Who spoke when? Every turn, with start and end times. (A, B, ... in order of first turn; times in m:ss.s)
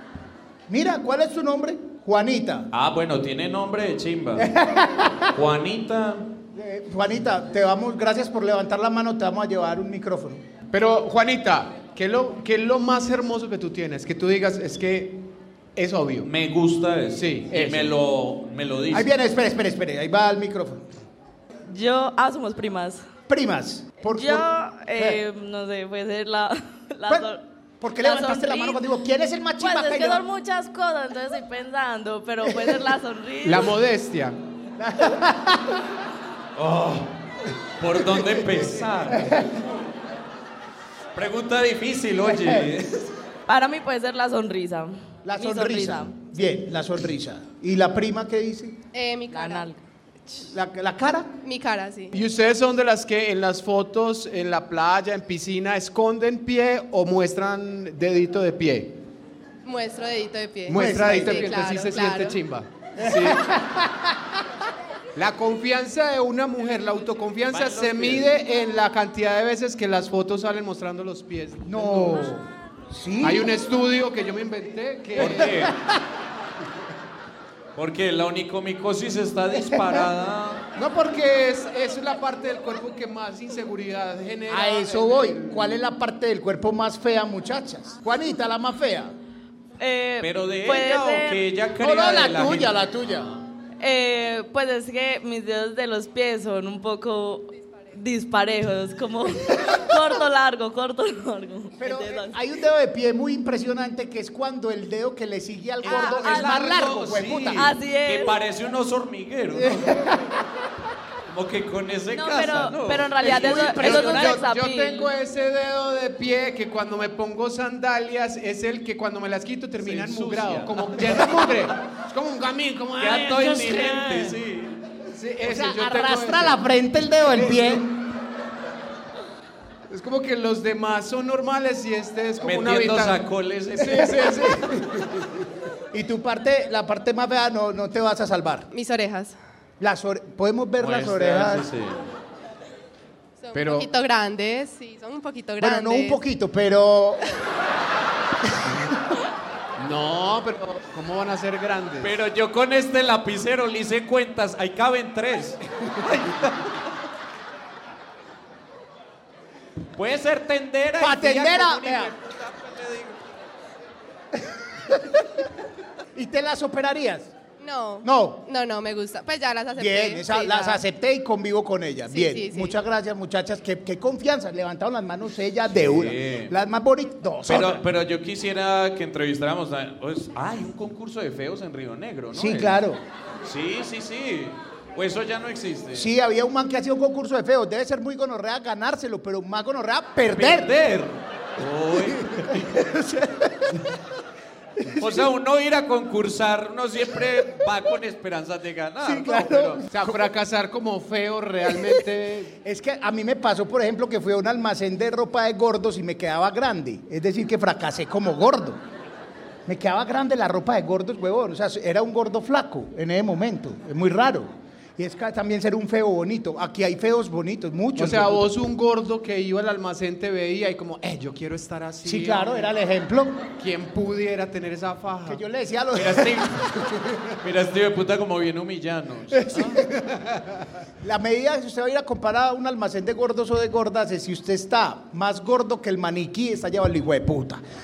0:00.7-0:02.7 A
0:02.7-0:04.5 B
0:04.4-0:05.3 A
0:05.3-0:06.3 B
0:06.6-0:10.4 A
0:10.7-0:15.2 C
0:15.8-0:16.3 C
0:16.2-0:19.1 B
0:17.1-0:17.9 C
0:18.9-0:20.8 A
0:21.6-0:23.0 D
0:23.3-0:25.2 A
0:24.1-0:27.4 D
0:27.1-0:30.2 A
0:28.0-0:28.8 D
0:29.6-0:33.7 D
0:32.5-0:32.8 A
0:33.4-0:34.4 C
0:34.8-0:35.8 A
0:36.6-0:37.1 B
0:37.8-0:39.7 B
0:39.1-0:39.5 A
0:41.1-0:43.1 B
0:43.5-0:46.5 D
0:45.2-0:48.8 A
0:48.9-0:49.7 E
0:49.3-0:49.8 D
0:50.5-0:51.3 A
0:51.4-0:52.1 E
0:52.1-0:59.0 C
0:59.6-1:02.4 E
1:00.6-1:03.4 C
1:00.7-1:01.4 A
1:03.0-1:04.2 A
1:05.1-1:12.3 C
1:07.5-1:08.3 B
1:11.6-1:13.5 A
1:13.2-1:15.7 C
1:15.2-1:15.8 B
1:17.8-1:20.6 B
1:19.7-1:20.0 A
1:20.8-1:25.8 C
1:24.5-1:29.1 A
1:29.8-1:31.4 D
1:30.2-1:32.7 B
1:31.8-1:33.4 A
1:33.8-1:42.3 D
1:41.8-1:47.8 A
1:45.8-1:49.9 B
1:45.8-1:46.9 D
1:47.5-1:48.4 D
1:49.6-1:50.4 A
1:51.3-1:54.3 B
1:52.1-1:55.1 D
1:52.7-2:04.4 C
1:53.2-1:54.3 A
1:59.8-2:01.7 B
2:03.0-2:04.8 B
2:05.1-2:06.6 C
2:05.4-2:08.1 A
2:09.9-2:13.2 C
2:12.4-2:14.2 B
2:13.7-2:15.4 C
2:15.9-2:18.7 A
2:18.7-2:19.4 E
2:19.8-2:21.7 A
2:20.8-2:22.0 B
2:23.4-2:26.2 E
2:23.5-2:23.9 C
2:25.6-2:27.2 A
2:29.8-2:32.1 C
2:32.0-2:36.8 B
2:39.9-2:43.2 B
2:41.0-2:42.1 A
2:44.7-2:45.2 A
2:46.1-2:47.3 A
2:47.6-2:50.8 E
2:48.0-2:48.4 A
2:49.7-2:57.8 A
2:52.1-2:52.8 E
2:55.7-2:56.5 B
2:57.5-3:02.8 B
3:02.3-3:03.0 A
3:03.4-3:06.1 B
3:05.9-3:10.7 A
3:10.3-3:12.8 B
3:12.2-3:13.8 A
3:14.8-3:15.2 A
3:15.0-3:19.8 B
3:19.0-3:20.2 A
3:19.9-3:22.5 C
3:22.6-3:28.8 A
3:29.6-3:38.5 A
3:38.0-3:42.7 C
3:42.0-3:43.4 A
3:43.6-3:45.4 C
3:45.2-3:46.9 A
3:45.9-3:46.7 B
3:47.4-3:49.9 B
3:49.3-3:50.0 A
3:51.0-3:57.6 A